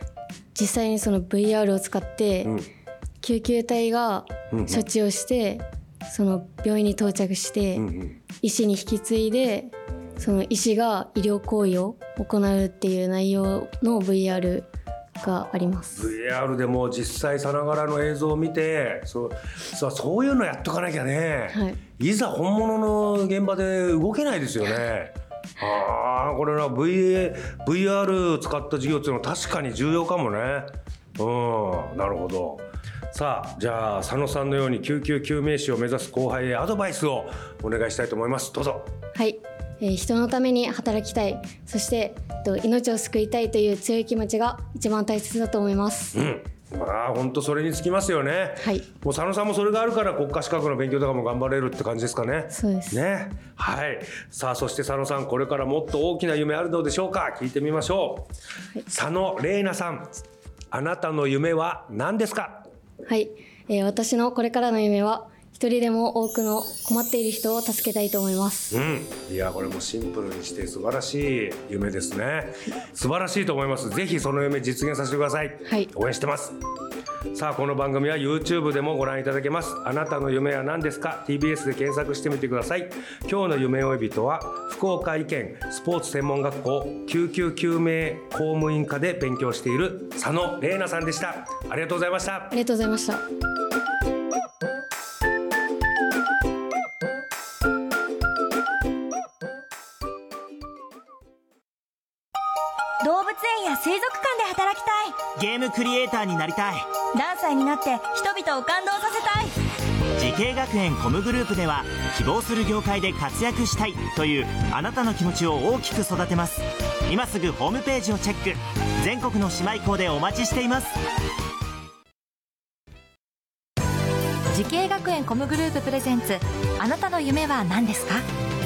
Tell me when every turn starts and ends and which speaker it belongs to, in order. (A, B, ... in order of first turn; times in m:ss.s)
0:00.5-0:02.5 A
0:03.2-0:14.7 A
0:04.5-0:04.8 B
0:07.8-0:08.2 B
0:15.2-0:38.9 B
0:15.2-0:16.1 A
0:21.5-0:21.8 A
0:39.1-0:46.2 A
0:46.1-0:58.3 B
0:48.6-0:48.9 A
0:52.5-0:53.0 A
0:58.9-1:00.2 B
1:00.7-1:02.7 B
1:03.0-1:08.8 A
1:08.7-1:16.6 B
1:17.3-1:32.5 B
1:32.5-1:33.2 A
1:43.0-1:45.3 C
1:45.3-1:46.9 D
1:47.1-1:49.6 C
1:50.2-2:01.0 D
2:04.5-2:08.2 E